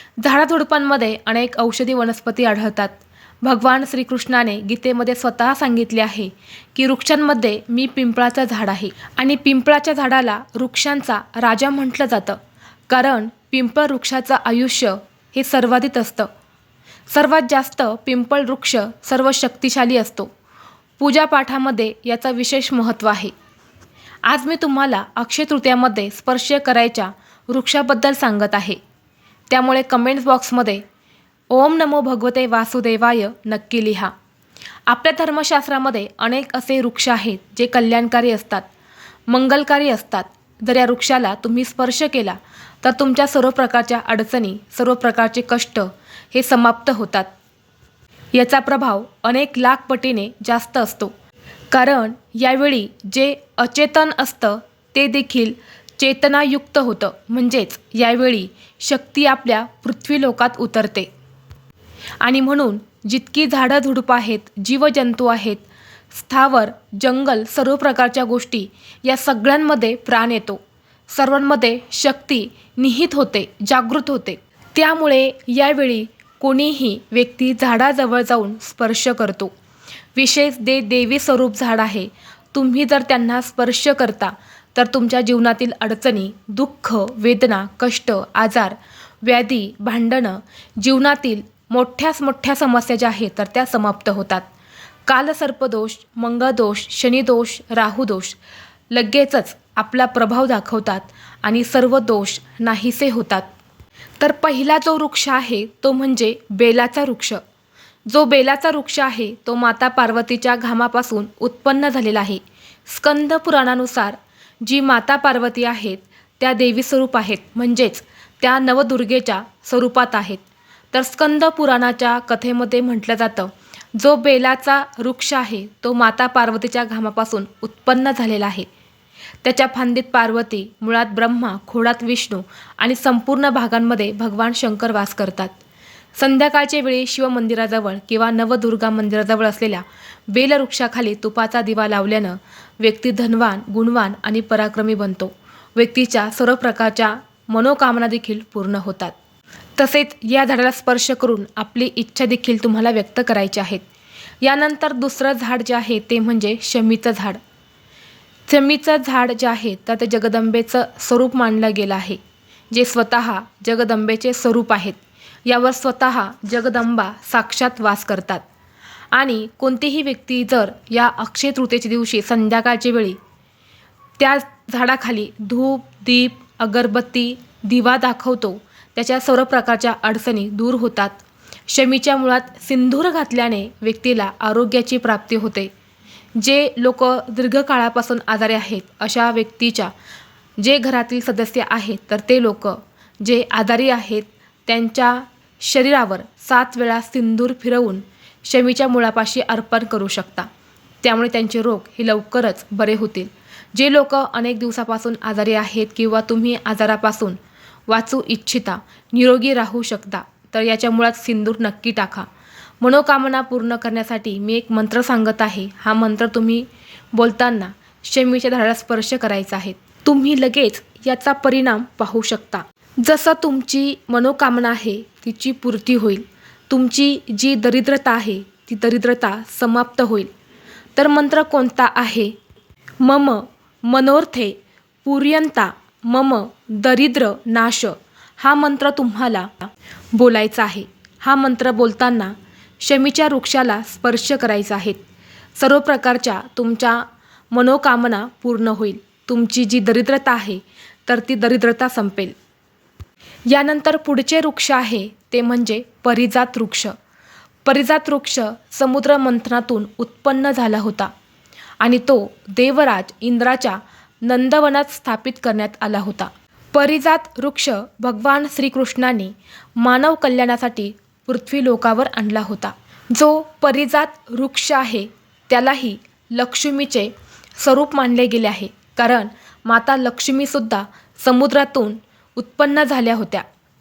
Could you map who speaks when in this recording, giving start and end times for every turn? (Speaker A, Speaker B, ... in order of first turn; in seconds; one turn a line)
Speaker A: 0.2-12.4
Speaker A: 12.9-16.3
Speaker A: 17.1-20.3
Speaker A: 21.0-23.3
Speaker A: 24.3-28.8
Speaker A: 29.5-30.8
Speaker A: 31.5-34.1
Speaker A: 34.9-38.7
Speaker A: 39.3-47.3
Speaker A: 48.3-51.1
Speaker A: 51.7-61.1
Speaker A: 62.2-79.5
Speaker A: 80.2-94.5
Speaker A: 95.1-98.4
Speaker A: 98.9-103.5
Speaker A: 104.2-107.4
Speaker A: 108.1-128.7
Speaker A: 129.4-135.5
Speaker A: 136.2-149.1
Speaker A: 149.8-153.8
Speaker A: 154.4-157.4
Speaker A: 158.5-162.2
Speaker A: 162.7-168.4
Speaker A: 169.1-173.2
Speaker A: 174.2-185.7
Speaker A: 186.4-189.9
Speaker A: 190.6-200.5
Speaker A: 201.0-212.3
Speaker A: 212.8-230.3
Speaker A: 231.0-232.3
Speaker A: 233.0-245.0
Speaker A: 245.6-252.3
Speaker A: 253.5-256.9
Speaker A: 257.6-261.1
Speaker A: 261.8-283.4